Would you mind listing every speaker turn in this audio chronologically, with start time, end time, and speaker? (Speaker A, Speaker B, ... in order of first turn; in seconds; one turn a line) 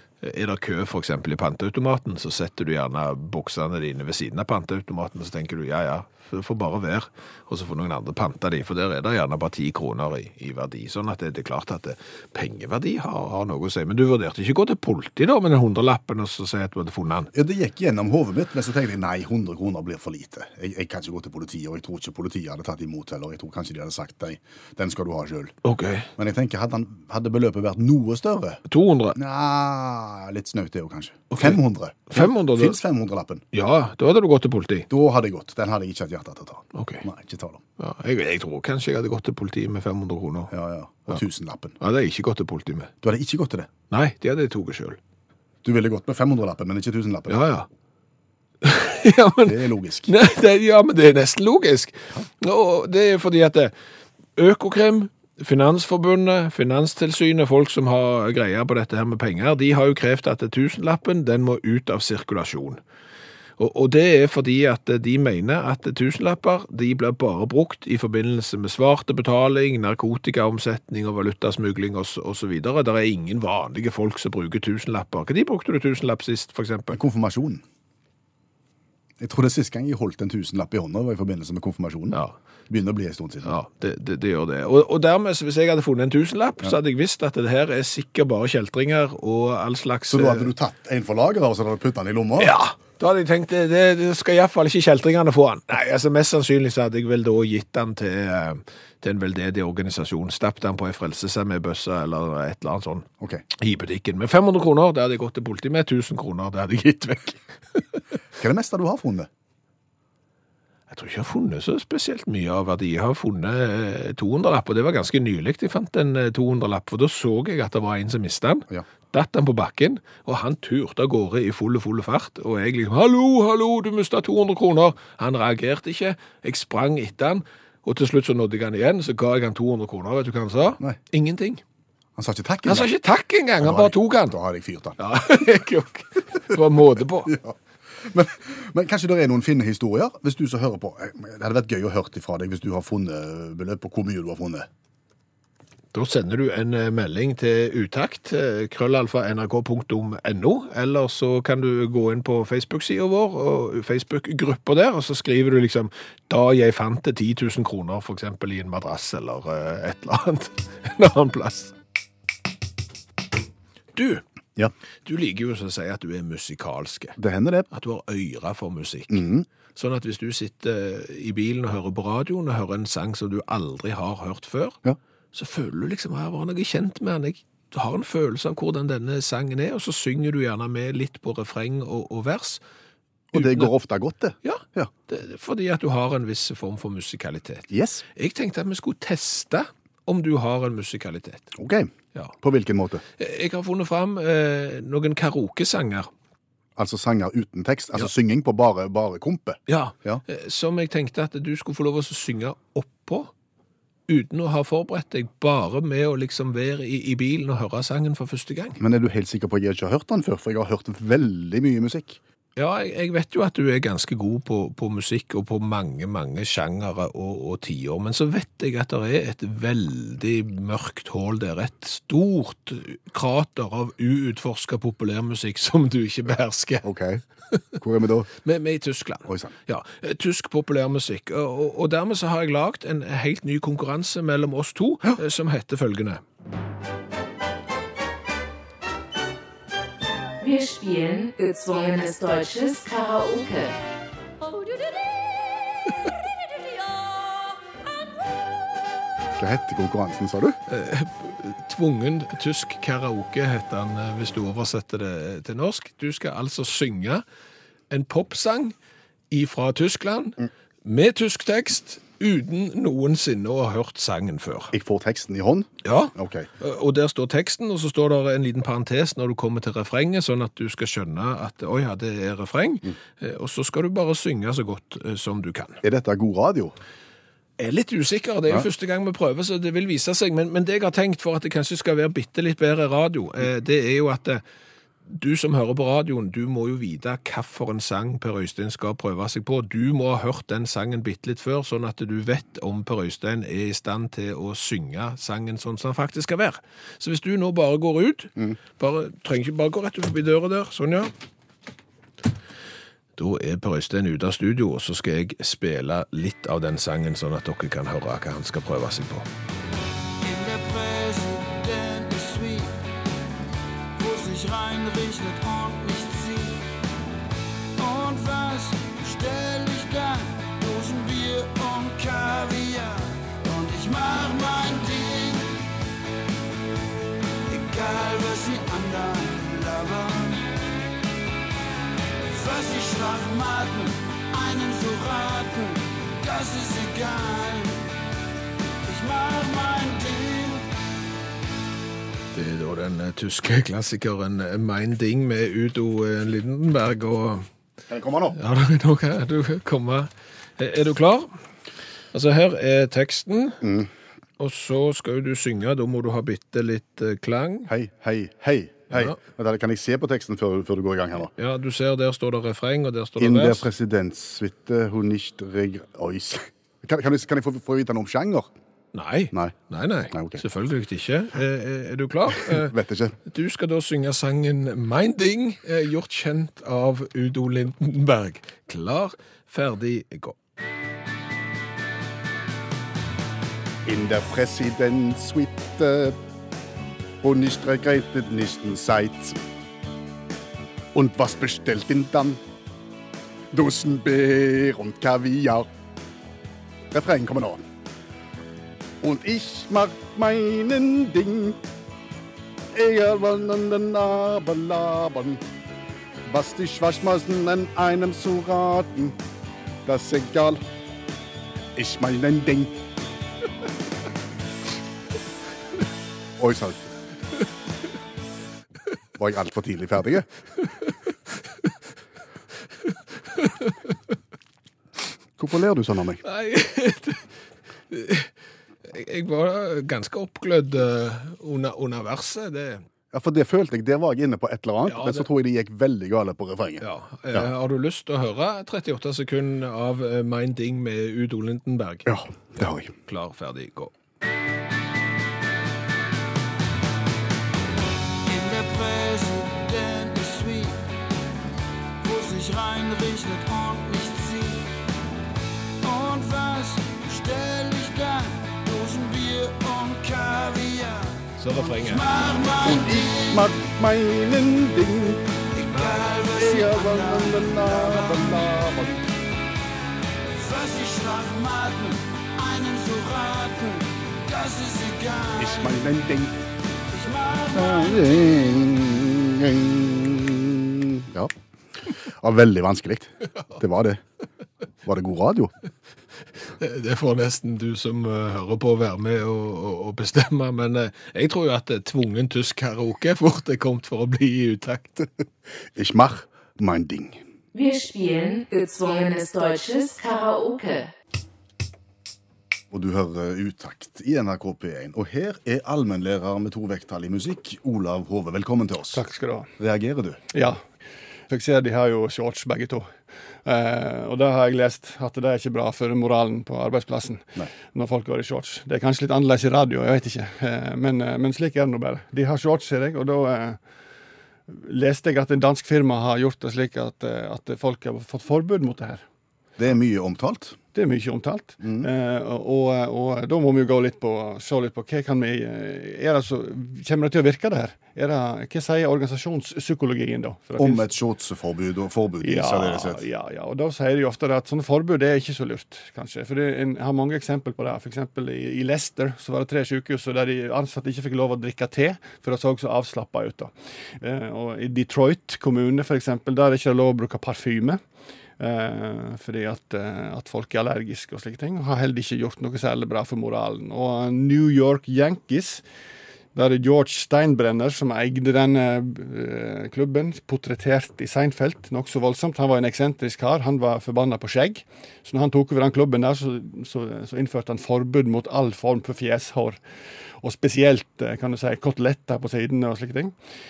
Speaker A: 0.2-17.3
Speaker B: 17.3-25.5
Speaker A: 25.6-26.1
Speaker B: 26.2-28.6
Speaker A: 28.7-29.2
Speaker B: 29.1-33.5
Speaker A: 31.3-31.6
Speaker A: 32.1-32.8
Speaker A: 33.5-34.9
Speaker B: 34.9-37.6
Speaker A: 36.7-37.0
Speaker A: 37.8-40.5
Speaker B: 40.5-41.8
Speaker A: 41.8-42.9
Speaker B: 43.0-43.7
Speaker A: 43.9-45.0
Speaker B: 45.6-47.4
Speaker A: 47.3-47.7
Speaker A: 48.6-53.7
Speaker B: 49.4-50.1
Speaker A: 54.4-62.8
Speaker A: 63.6-77.0
Speaker B: 76.9-77.6
Speaker B: 79.2-83.5
Speaker A: 83.4-90.5
Speaker B: 90.1-92.5
Speaker A: 92.4-107.8
Speaker B: 103.2-103.4
Speaker B: 108.4-109.3
Speaker A: 110.9-131.6
Speaker B: 132.2-132.9
Speaker A: 132.7-134.3
Speaker B: 133.6-135.0
Speaker A: 135.0-137.3
Speaker B: 137.3-144.7
Speaker A: 145.9-161.7
Speaker A: 163.9-164.2
Speaker A: 165.0-167.2
Speaker B: 167.2-167.7
Speaker A: 167.7-174.8
Speaker B: 169.1-169.4
Speaker A: 175.3-182.6
Speaker B: 183.3-184.9
Speaker A: 183.3-183.7
Speaker A: 184.4-191.5
Speaker B: 187.7-188.0
Speaker B: 191.5-193.0
Speaker A: 193.2-196.1
Speaker B: 196.8-200.2
Speaker A: 199.7-203.3
Speaker A: 204.1-208.8
Speaker B: 208.8-212.2
Speaker A: 212.6-226.9
Speaker B: 226.8-227.2
Speaker B: 227.8-228.3
Speaker A: 228.4-236.2
Speaker B: 229.2-229.5
Speaker C: 240.4-243.7
Speaker B: 249.4-250.6
Speaker A: 250.7-257.2
Speaker A: 257.9-258.7
Speaker A: 259.3-264.7
Speaker B: 264.7-266.5
Speaker A: 265.8-275.8
Speaker B: 275.8-276.7
Speaker A: 277.6-284.4
Speaker A: 285.1-301.1
Speaker A: 303.2-309.3
Speaker D: 310.2-312.9
Speaker D: 314.0-316.7
Speaker D: 317.8-325.6
Speaker D: 327.5-330.5
Speaker D: 332.3-337.9
Speaker D: 338.8-340.6
Speaker A: 342.3-347.5
Speaker B: 347.9-348.4
Speaker A: 348.3-351.4
Speaker A: 352.1-353.6
Speaker B: 353.6-353.9
Speaker A: 354.4-357.7
Speaker B: 357.7-361.3
Speaker A: 361.3-363.7
Speaker B: 363.2-368.5
Speaker A: 368.9-372.7
Speaker B: 370.1-370.4
Speaker B: 372.3-373.2
Speaker A: 373.2-380.4
Speaker B: 383.8-386.2
Speaker B: 387.2-389.4
Speaker B: 390.9-392.4
Speaker B: 393.5-395.7
Speaker B: 396.9-397.6
Speaker B: 399.0-401.6
Speaker B: 402.7-405.4
Speaker B: 406.2-409.2
Speaker B: 409.8-410.6
Speaker B: 411.8-412.8
Speaker B: 416.4-416.8
Speaker B: 419.2-420.3
Speaker A: 423.4-423.7
Speaker B: 425.4-426.2
Speaker A: 426.2-427.3
Speaker A: 427.9-428.3
Speaker A: 428.8-432.8
Speaker B: 433.1-437.4
Speaker A: 434.9-435.2
Speaker A: 436.8-443.9
Speaker B: 442.1-442.9
Speaker D: 448.2-450.9
Speaker D: 452.0-454.8
Speaker D: 455.8-463.6
Speaker A: 461.4-462.2
Speaker B: 462.6-465.3
Speaker D: 465.5-468.5
Speaker A: 465.6-466.2
Speaker B: 466.3-469.0
Speaker D: 470.3-475.8
Speaker B: 475.4-476.4
Speaker D: 476.9-478.6
Speaker B: 477.5-481.3
Speaker B: 481.9-484.0
Speaker B: 484.8-485.5
Speaker A: 486.5-495.1
Speaker B: 495.7-497.2
Speaker C: 497.5-500.9
Speaker B: 502.7-509.0
Speaker E: 508.9-509.5
Speaker B: 509.6-510.2
Speaker E: 510.3-510.6
Speaker E: 511.3-523.6
Speaker E: 524.5-529.0
Speaker B: 529.6-530.6
Speaker E: 530.7-540.9
Speaker B: 531.6-531.9
Speaker B: 540.6-543.0
Speaker E: 542.2-557.8
Speaker E: 558.4-565.6
Speaker E: 566.3-579.6
Speaker E: 580.2-583.1